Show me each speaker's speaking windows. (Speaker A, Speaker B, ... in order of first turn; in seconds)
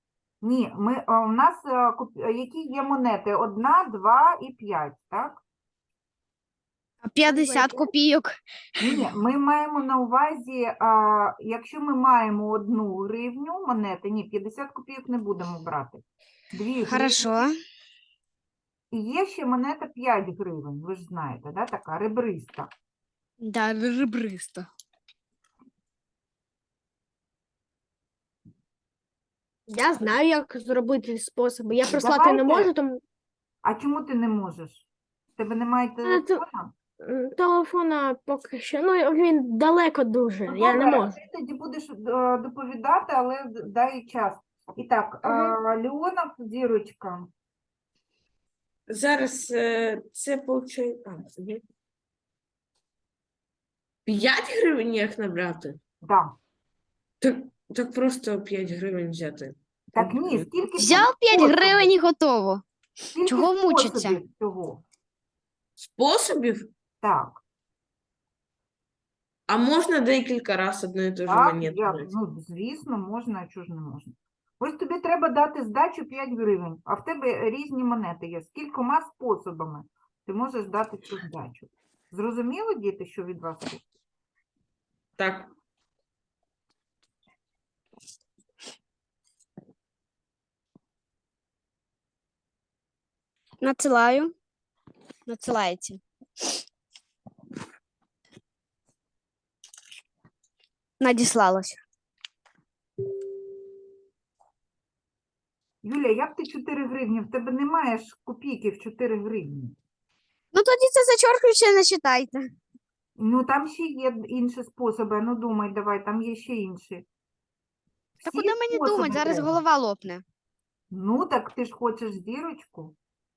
Speaker A: 0.4-5.4, 8.8-17.4, 18.9-22.7, 31.9-32.7, 33.6-34.9, 35.4-36.7, 40.5-47.3, 56.0-56.4, 59.9-61.9, 63.1-64.8, 67.0-67.4, 71.2-83.8, 105.8-109.8, 113.2-117.0, 118.2-119.6, 120.9-123.0
Speaker B: 7.0-9.0, 16.9-17.5, 23.4-24.7, 60.8-62.6, 63.2-64.2, 93.6-94.3, 95.2-96.0, 101.0-101.8, 110.5-112.5, 118.2-120.2
Speaker C: 7.2-7.9, 29.7-33.0, 36.0-36.4, 37.0-41.1, 45.2-45.5
Speaker D: 48.9-51.6, 54.0-55.8, 57.2-60.5, 65.8-66.7, 69.5-72.1, 85.2-85.5